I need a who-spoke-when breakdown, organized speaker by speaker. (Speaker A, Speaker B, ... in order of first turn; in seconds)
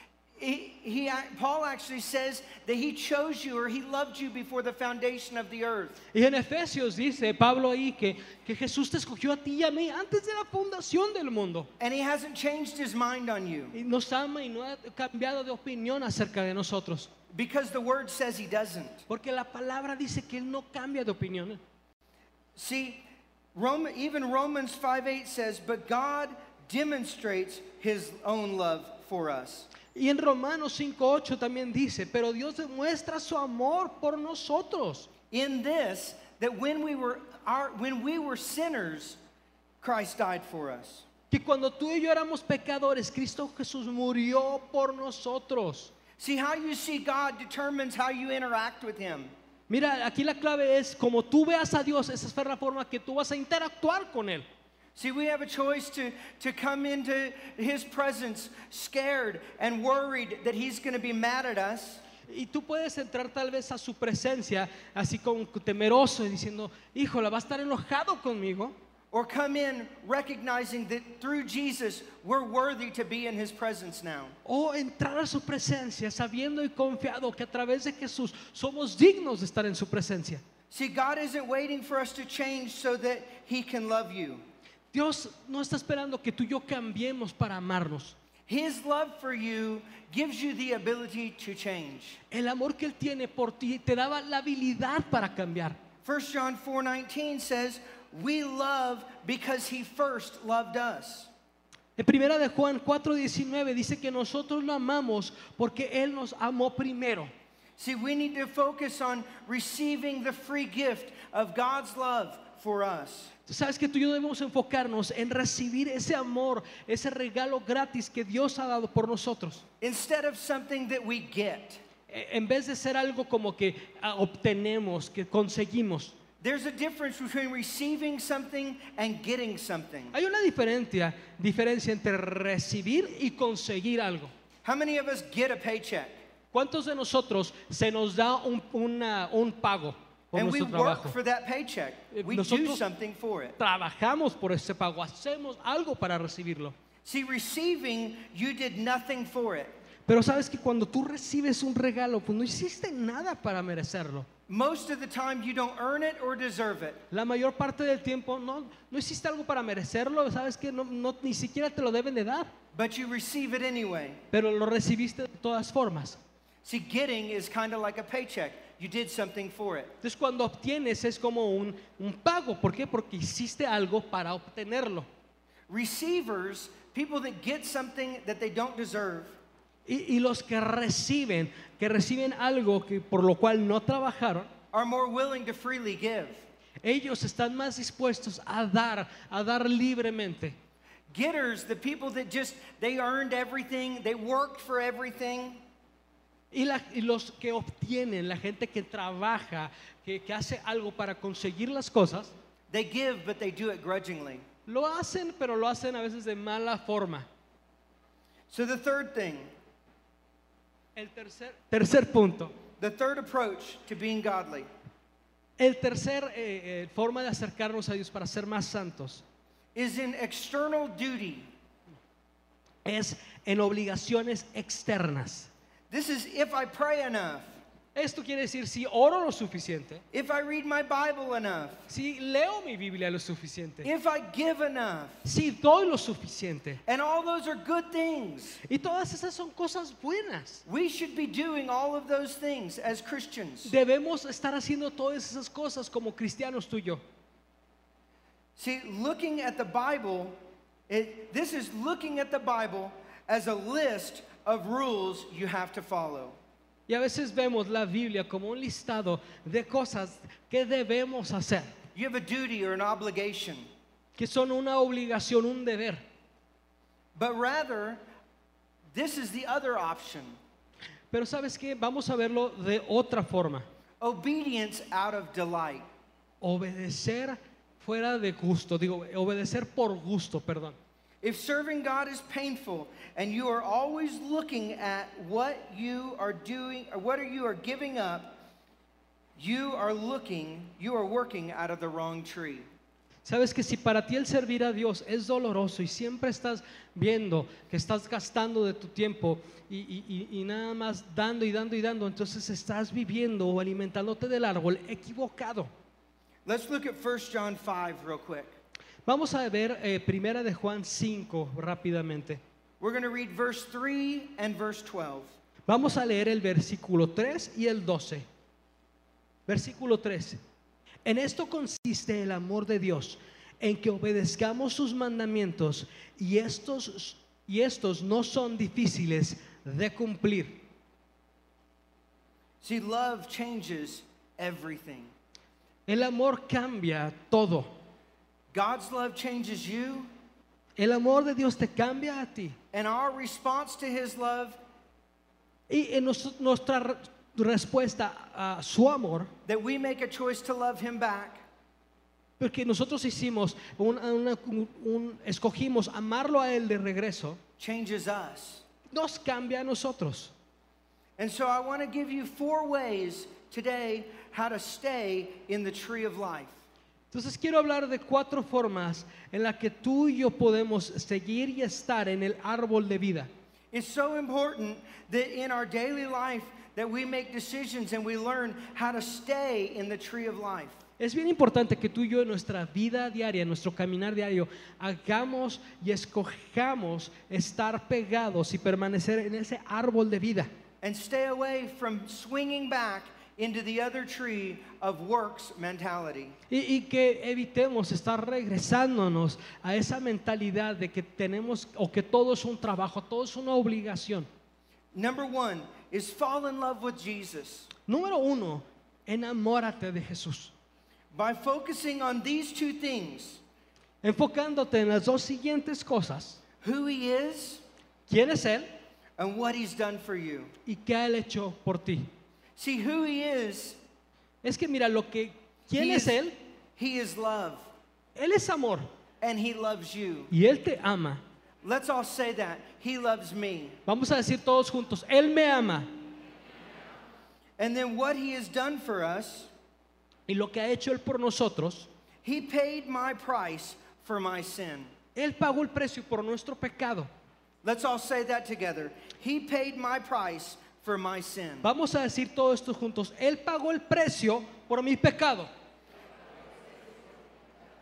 Speaker A: 0.4-6.0, 11.8-13.8, 17.3-19.1, 22.6-23.0, 23.6-29.7, 35.3-39.2, 39.8-41.0, 46.2-49.3, 55.0-62.0, 69.1-74.3, 80.7-84.4, 88.5-92.2, 96.0-101.3, 107.8-113.3, 119.8-121.8, 126.4-130.1, 134.6-136.2, 140.3-143.6, 147.1-149.7, 154.5-157.0, 162.7-164.2, 166.6-169.9, 175.7-179.4, 184.7-186.5, 191.1-195.6, 202.7-204.4, 208.5-209.5, 212.8-214.7, 219.8-221.5, 225.9-227.6, 230.1-231.9, 233.8-235.2, 236.9-238.6, 240.7-243.7, 248.6-250.4, 250.9-256.4, 261.9-263.7, 267.1-268.0, 268.9-270.4, 274.0-275.9, 281.2-288.4, 289.4-292.7, 306.5-308.5, 312.8-315.3, 332.6-335.1, 338.5-340.1, 342.7-344.6, 349.5-351.4, 357.6-358.6, 361.2-366.5, 373.7-380.8, 390.8-396.4, 404.9-407.7, 411.1-413.4, 416.6-417.6, 419.2-420.5, 422.6-423.8, 425.8-426.2, 426.8-427.7, 429.2-430.3, 431.6-433.8, 437.6-439.5, 442.2-444.9, 447.6-451.7
Speaker B: 6.1-11.7, 13.7-17.1, 19.1-21.6, 29.9-35.1, 41.3-45.9, 49.7-54.5, 62.3-68.7, 74.5-80.4, 84.9-88.2, 92.3-95.8, 102.0-107.3, 113.5-119.6, 122.1-126.1, 130.1-134.3, 136.5-141.2, 142.1-142.8, 143.6-146.7, 150.1-154.3, 157.1-162.5, 164.3-166.2, 170.0-175.1, 179.9-184.5, 186.8-190.6, 196.5-202.3, 204.7-207.3, 211.0-212.5, 215.6-219.2, 222.8-225.5, 227.9-230.0, 231.9-233.9, 235.2-236.8, 238.7-240.6, 243.7-247.0, 256.9-261.7, 264.2-266.0, 271.1-273.7, 276.4-280.8, 293.2-305.7, 309.1-312.4, 315.7-318.2, 319.5-320.4, 321.1-330.6, 335.9-337.7, 340.8-342.6, 345.7-349.3, 352.4-357.4, 358.9-360.3, 367.1-373.3, 381.0-390.5, 396.5-404.3, 407.9-410.5, 414.0-416.4, 418.1-418.7, 420.7-422.1, 424.4-426.3, 428.2-428.9, 430.3-431.2, 433.9-435.9, 440.3-441.9, 445.1-447.1, 451.6-455.5